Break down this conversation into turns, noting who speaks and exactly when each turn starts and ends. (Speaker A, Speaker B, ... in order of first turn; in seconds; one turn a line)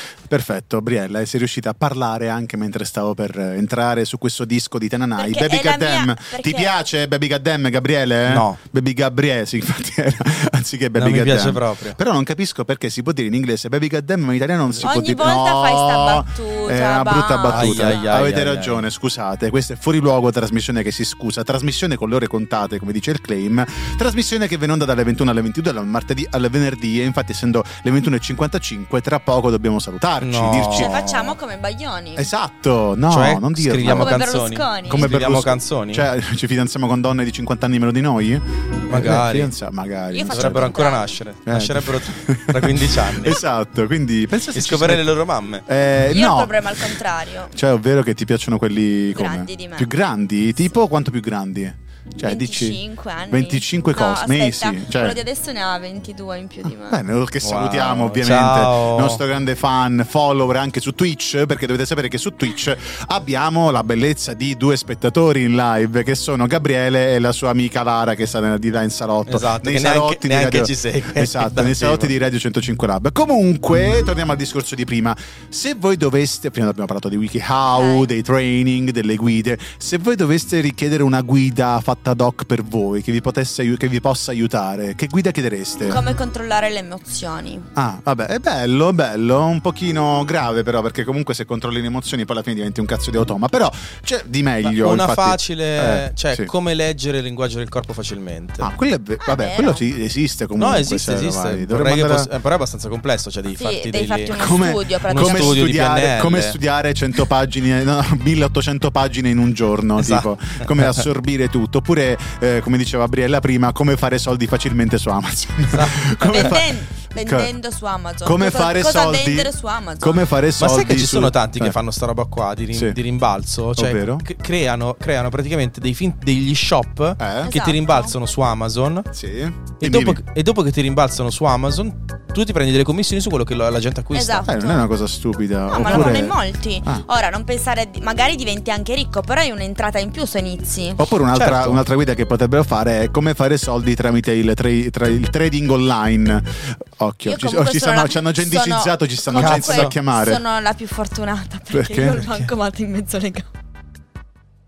Speaker A: 0.3-31.0
Speaker B: 5.2-6.8
Speaker C: 8.3-8.6
Speaker C: 11.0-12.0
Speaker B: 14.8-18.1
Speaker C: 17.5-18.8
Speaker C: 30.2-31.3
Speaker B: 30.7-32.3
Speaker A: 32.1-40.8
Speaker C: 33.1-36.1
Speaker B: 33.9-35.1
Speaker C: 38.9-39.5
Speaker B: 40.1-41.2
Speaker C: 40.3-43.4
Speaker A: 41.4-45.0
Speaker C: 44.5-45.6
Speaker A: 45.7-46.9
Speaker B: 46.1-47.5
Speaker A: 47.5-55.2
Speaker B: 49.1-49.9
Speaker B: 52.2-57.0
Speaker A: 56.9-86.0
Speaker C: 57.4-59.2
Speaker C: 69.2-72.1
Speaker B: 77.7-78.1
Speaker B: 85.8-87.7
Speaker A: 87.8-96.5
Speaker C: 94.6-98.7
Speaker A: 98.6-102.3
Speaker B: 99.2-99.8
Speaker C: 100.6-106.6
Speaker B: 103.5-105.6
Speaker A: 104.3-117.5
Speaker C: 110.0-111.0
Speaker C: 115.7-116.5
Speaker B: 116.2-120.2
Speaker A: 118.2-121.8
Speaker C: 120.6-129.1
Speaker A: 122.7-123.0
Speaker A: 123.8-124.2
Speaker A: 127.2-127.6
Speaker B: 127.4-128.1
Speaker A: 129.1-130.2
Speaker C: 129.8-134.5
Speaker B: 134.1-134.8
Speaker A: 134.4-137.0
Speaker B: 135.7-141.0
Speaker C: 135.8-136.2
Speaker A: 141.0-150.4
Speaker C: 141.3-141.8
Speaker B: 147.2-153.5
Speaker C: 149.3-149.9
Speaker A: 151.7-152.4